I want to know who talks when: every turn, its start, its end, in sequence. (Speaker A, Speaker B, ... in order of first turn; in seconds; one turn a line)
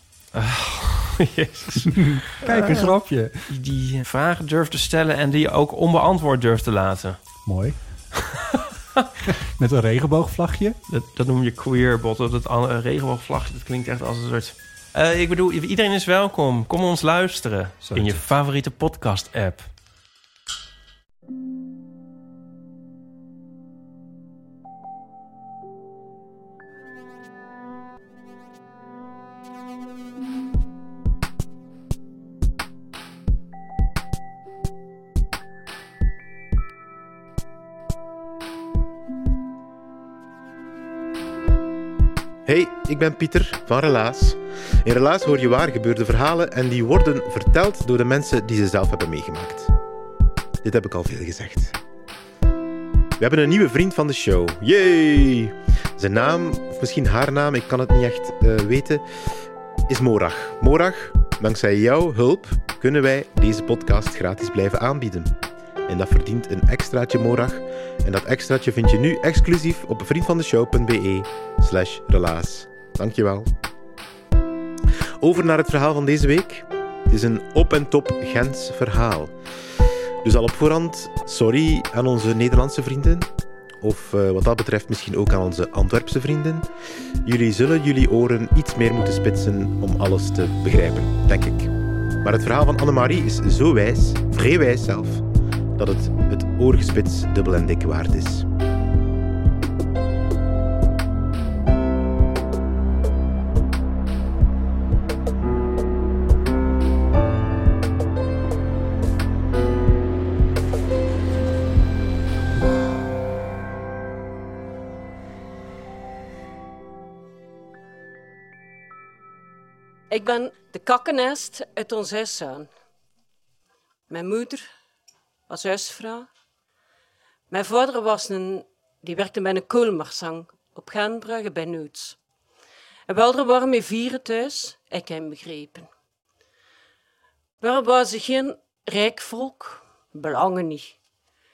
Speaker A: 0.3-2.9
Speaker B: 2.0-3.5
Speaker A: 3.5-8.6
Speaker B: 7.5-8.2
Speaker B: 9.6-10.8
Speaker A: 10.9-19.7
Speaker B: 17.9-18.2
Speaker C: 42.5-49.7
Speaker C: 50.6-51.8
Speaker C: 53.2-59.0
Speaker C: 59.9-65.3
Speaker C: 65.9-73.5
Speaker C: 75.2-79.3
Speaker C: 80.2-83.3
Speaker C: 83.8-86.7
Speaker C: 87.2-91.7
Speaker C: 92.2-95.2
Speaker C: 95.8-98.5
Speaker D: 120.1-122.7
Speaker D: 124.1-124.7
Speaker D: 125.5-126.3
Speaker D: 127.5-132.2
Speaker D: 133.1-135.9
Speaker D: 137.6-141.0